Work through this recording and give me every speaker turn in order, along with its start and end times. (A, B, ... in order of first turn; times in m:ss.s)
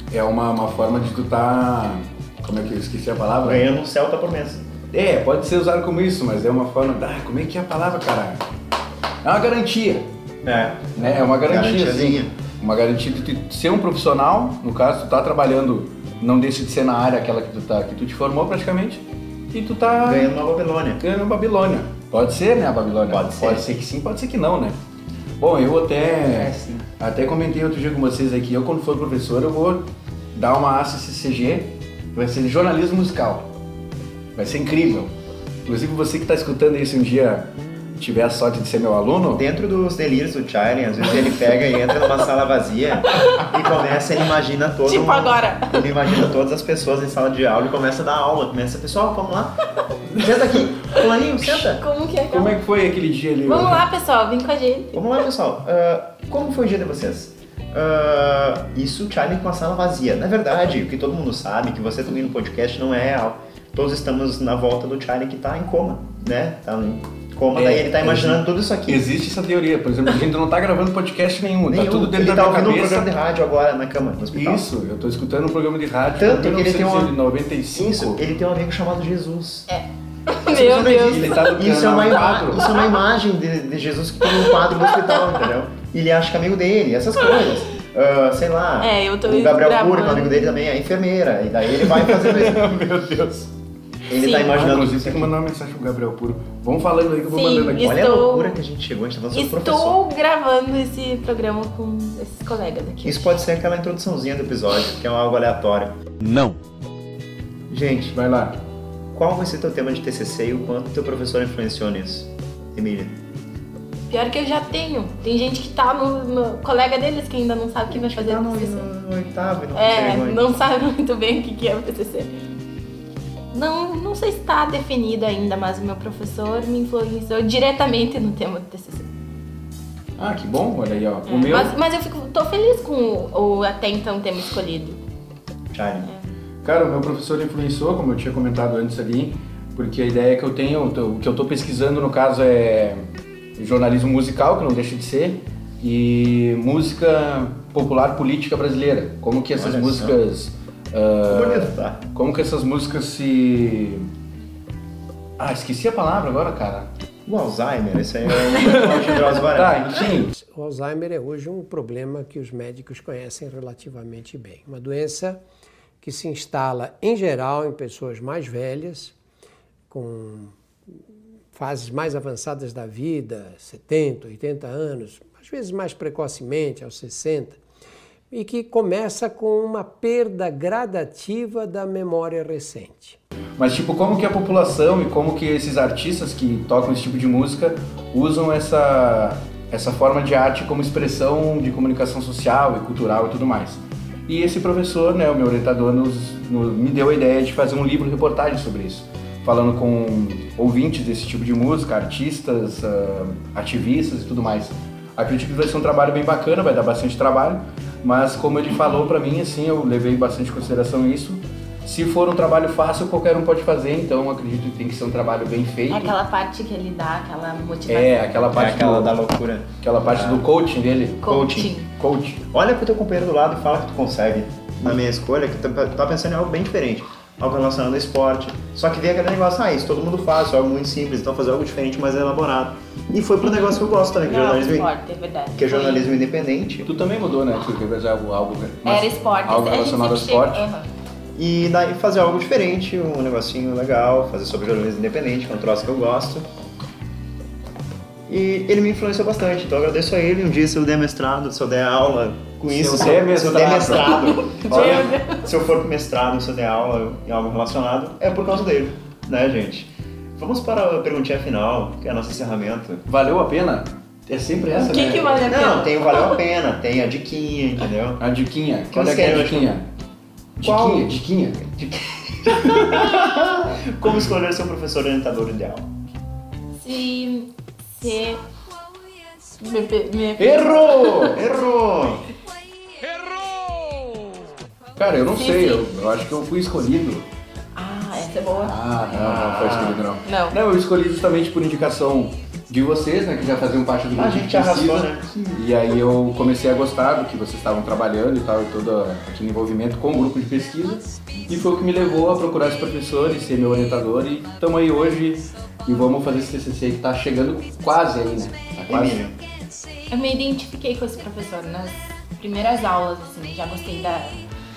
0:00.1-0:03.7 A
0:03.4-0:04.6 B
0:04.9-0:08.4 A
0:09.2-0:10.1 A
0:10.4-0:12.3 B
0:11.0-0:20.4 A
0:20.0-0:21.0 B
0:21.0-0:24.8 A
0:23.1-0:23.6 B
0:25.4-0:33.5 A
0:26.3-0:26.9 B
0:34.4-0:35.1 A
0:35.6-0:39.4 A
0:39.4-0:51.8 B
0:43.1-0:43.5 C
0:44.8-0:45.9 C
0:51.0-0:52.6 C
0:52.3-0:53.8 A
0:53.4-0:55.0 C
0:54.9-1:09.1 B
1:07.5-1:13.1 A
1:11.7-1:14.6 B
1:14.3-1:18.2 A
1:16.2-1:17.1 B
1:17.7-1:19.7 B
1:19.7-1:21.4 C
1:20.5-1:32.6 B
1:21.0-1:22.7 A
1:28.8-1:30.6 C
1:31.8-1:33.5 A
1:34.1-1:35.3 B
1:34.2-1:34.5 C
1:34.3-1:38.0 A
1:37.3-1:38.6 C
1:37.8-1:40.0 B
1:39.3-1:43.4 C
1:43.0-1:46.0 B
1:46.2-1:46.6 A
1:47.7-1:48.2 B
1:48.1-1:48.6 A
1:49.1-1:53.2 B
1:54.1-1:58.9 C
1:57.9-2:00.4 B
1:59.7-2:02.4 C
2:03.5-2:09.1 C
2:10.2-2:11.7 A
2:11.3-2:15.0 C
2:15.7-2:16.1 B
2:16.0-2:16.3 C
2:16.6-2:23.0 A
2:23.6-2:34.1 A
2:29.5-2:30.2 B
2:31.3-2:32.0 B
2:35.4-2:36.9 A
2:37.3-2:40.1 B
2:38.4-2:40.3 A
2:40.3-2:45.4 D
2:46.0-2:49.1 D
2:49.9-2:50.5 D
2:51.5-2:57.6 D
2:58.3-3:03.2 D
3:03.6-3:36.1 A
3:35.9-3:38.4 C
3:37.9-3:39.2 A
3:38.5-3:40.4 B
3:39.8-3:41.3 A
3:41.2-3:41.9 C
3:41.2-3:41.7 B
3:42.0-3:42.4 A
3:42.5-3:54.9 B
3:54.2-3:56.1 C
3:55.6-3:56.9 B
3:56.8-4:00.6 A
3:58.8-4:00.9 C
4:01.4-4:06.5 B
4:08.3-4:23.0 B
4:12.7-4:15.2 A
4:14.5-4:15.4 C
4:23.0-4:25.5 A
4:24.7-4:26.4 C
4:25.4-4:28.2 B
4:28.2-4:29.9 A
4:28.9-4:29.8 B
4:30.6-4:31.6 A
4:30.6-4:35.9 B
4:32.5-4:33.6 A
4:36.8-4:38.4 C
4:38.7-4:39.7 E
4:39.6-4:41.4 C
4:40.4-4:41.4 A
4:41.3-4:42.2 B
4:42.4-4:44.2 E
4:45.0-4:47.2 A
4:45.3-4:45.8 C
4:47.7-4:48.7 C
4:48.6-5:09.2 A
4:49.1-4:50.1 B
4:50.2-4:50.6 C
4:54.1-4:55.6 B
5:08.9-5:09.4 B
5:09.6-5:10.0 E
5:10.1-5:14.4 C